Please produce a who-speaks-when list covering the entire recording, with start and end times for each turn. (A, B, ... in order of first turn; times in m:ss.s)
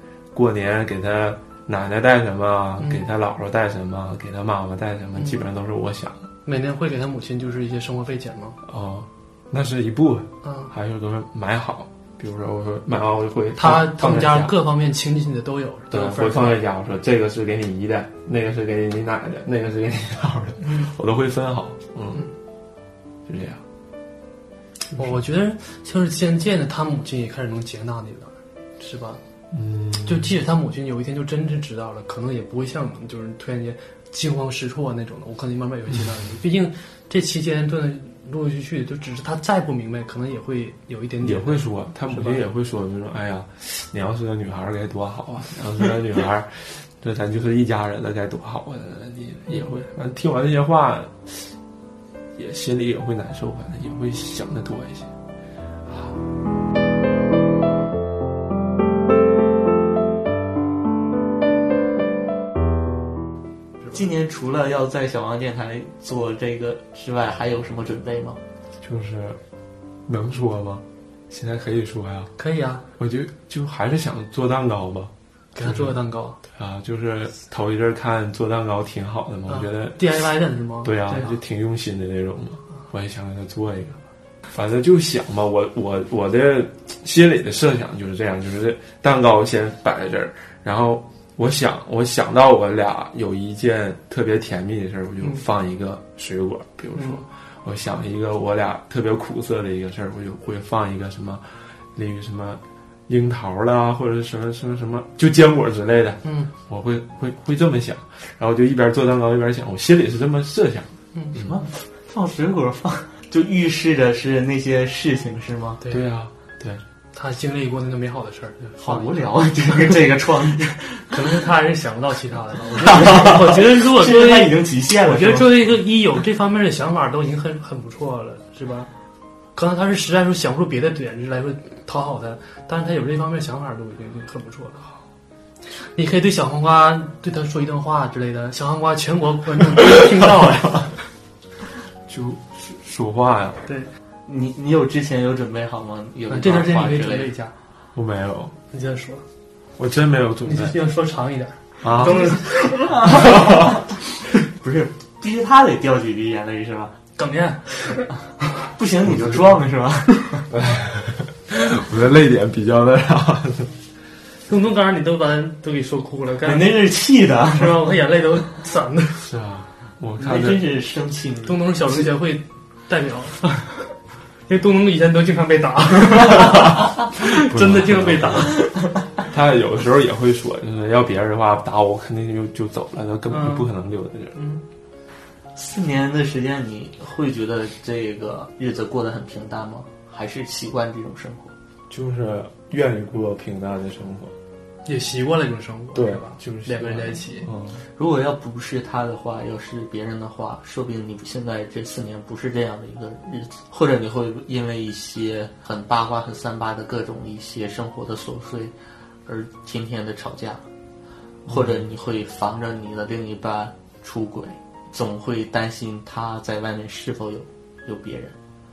0:00.3-0:06.3 A
0:02.8-0:03.0 B
0:05.2-0:05.4 B
0:06.5-0:08.6 B
0:08.6-0:14.6 A
0:10.4-0:10.7 B
0:13.6-0:16.6 B
0:15.9-0:22.3 A
0:23.3-0:23.6 A
0:24.9-0:29.2 B
0:29.5-0:30.4 A
0:30.0-0:42.5 B
0:41.2-0:51.5 A
0:49.5-0:49.8 B
0:52.4-0:55.1 A
0:55.9-0:56.2 A
1:03.9-1:08.4 C
1:08.8-1:09.4 A
1:10.1-1:12.3 A
1:12.4-1:12.8 B
1:13.0-1:20.2 A
1:15.6-1:16.4 B
1:19.5-1:21.3 B
1:20.8-1:51.6 A
1:37.0-1:37.2 B
1:51.4-1:55.8 C
1:55.8-1:56.1 B
1:55.9-1:56.8 A
1:57.1-1:59.3 B
1:58.8-2:01.1 C
2:01.1-2:08.9 B
2:02.9-2:05.6 C
2:09.6-2:14.9 B
2:15.8-2:21.0 B
2:19.8-2:20.8 A
2:22.1-2:23.7 A
2:24.3-2:27.3 C
2:26.3-2:27.5 B
2:28.0-2:28.5 A
2:28.7-2:29.2 B
2:29.8-2:30.8 A
2:30.4-2:33.3 B
2:31.8-2:32.4 A
2:32.2-2:34.0 C
2:33.1-2:33.7 A
2:34.5-2:37.0 C
2:37.2-2:38.1 B
2:38.6-2:40.5 C
2:39.1-2:39.5 A
2:40.5-2:43.7 A
2:44.5-2:46.8 B
2:46.4-2:47.9 C
2:47.5-2:49.3 B
2:49.2-2:50.7 A
2:50.2-2:52.1 C
2:51.5-2:54.0 B
2:54.5-2:58.7 B
2:56.5-3:04.4 A
3:03.3-3:03.7 B
3:04.4-3:04.6 B
3:05.6-3:11.5 C
3:11.9-3:14.4 A
3:14.8-3:17.5 B
3:15.9-3:17.8 A
3:18.0-3:28.8 C
3:29.3-3:30.6 C
3:31.5-3:38.4 C
3:31.5-3:31.8 A